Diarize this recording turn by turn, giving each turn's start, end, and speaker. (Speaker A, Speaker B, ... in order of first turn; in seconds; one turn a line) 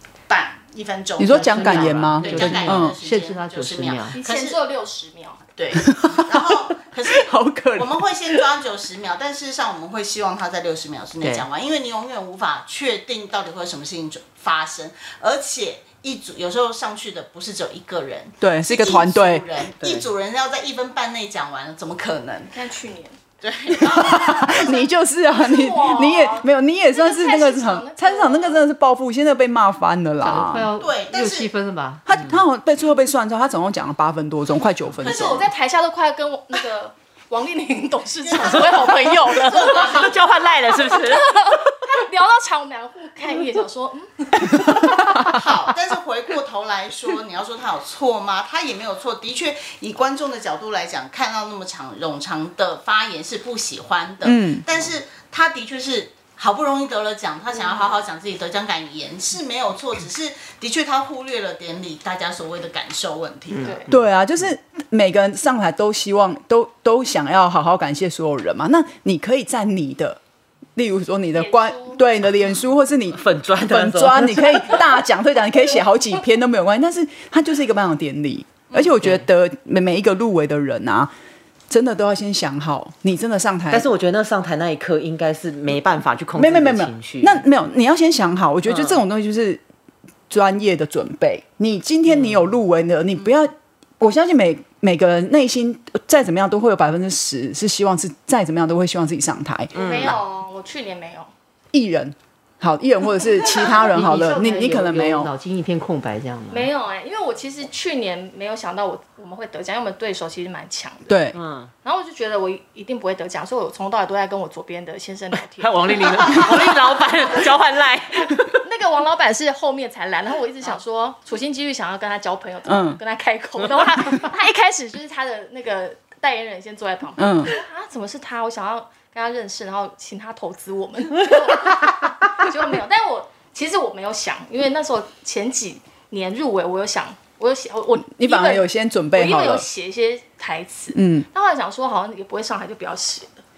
Speaker A: 0.3-4.6
Speaker B: 1.2-3.0
Speaker C: 1.3-4.2
Speaker D: 4.1-5.4
Speaker A: 5.6-22.6
Speaker B: 5.7-8.4
Speaker C: 11.2-11.5
Speaker B: 18.4-19.4
Speaker E: 19.8-20.1
Speaker D: 22.5-23.2
Speaker A: 23.4-24.8
Speaker B: 23.8-30.7
Speaker D: 25.3-28.7
Speaker C: 30.2-32.0
Speaker A: 30.8-31.5
Speaker B: 32.1-35.5
Speaker E: 32.1-32.4
Speaker A: 35.0-35.5
Speaker D: 35.0-40.1
Speaker A: 38.2-40.2
Speaker E: 38.4-41.6
Speaker D: 40.7-45.7
Speaker A: 45.1-63.8
Speaker B: 54.2-54.6
Speaker D: 57.5-57.9
Speaker C: 63.5-63.9
Speaker D: 63.6-63.9
Speaker B: 63.9-70.2
Speaker B: 70.8-81.1
Speaker D: 71.3-72.0
Speaker E: 73.1-74.8
Speaker B: 81.7-83.9
Speaker E: 83.7-87.4
Speaker B: 86.3-89.6
Speaker E: 88.7-89.0
Speaker B: 90.3-99.8
Speaker E: 99.7-100.2
Speaker D: 99.7-101.3
Speaker B: 101.7-105.3
Speaker C: 103.7-106.7
Speaker D: 106.5-111.2
Speaker B: 111.1-111.4
Speaker E: 111.3-111.7
Speaker D: 111.8-117.5
Speaker E: 115.5-118.6
Speaker D: 118.6-143.4
Speaker B: 122.7-123.0
Speaker B: 127.2-127.6
Speaker B: 138.1-139.7
Speaker B: 140.9-141.3